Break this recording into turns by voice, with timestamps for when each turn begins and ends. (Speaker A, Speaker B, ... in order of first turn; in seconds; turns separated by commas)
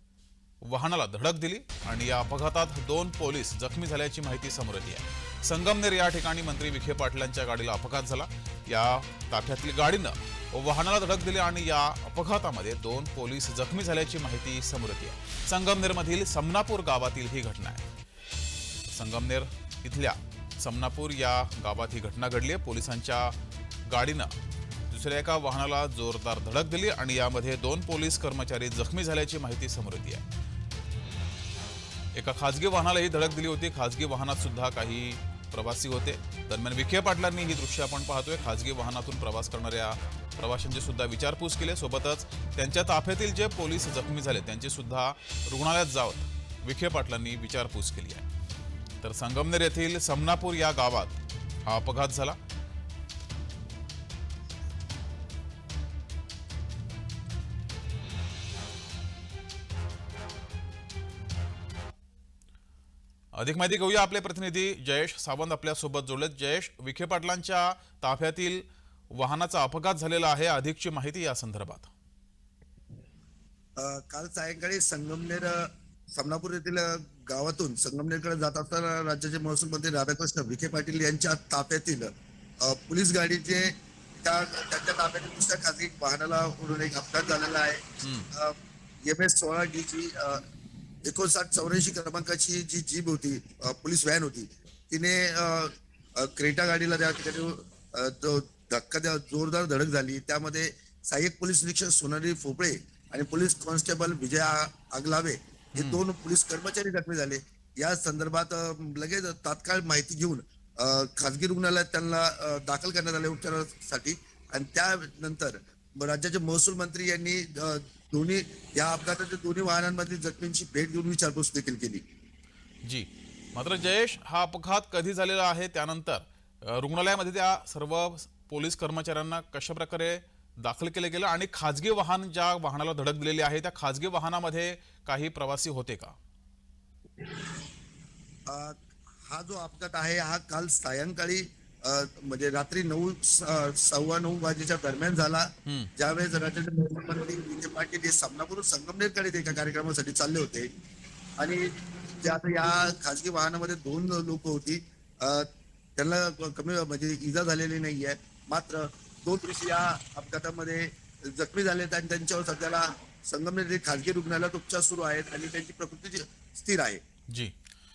Speaker A: 0.6-17.8, Speaker A: 18.9-23.3, Speaker A: 23.9-24.3, Speaker A: 24.9-30.2, Speaker A: 32.1-48.2, Speaker A: 49.0-52.4, Speaker A: 63.4-68.6, Speaker A: 69.1-71.9, Speaker B: 73.8-82.1, Speaker B: 82.6-90.4, Speaker A: 88.0-88.3, Speaker B: 91.0-122.0, Speaker A: 105.8-106.0, Speaker A: 122.8-136.2, Speaker B: 138.5-150.7, Speaker A: 145.7-145.9, Speaker B: 151.4-167.0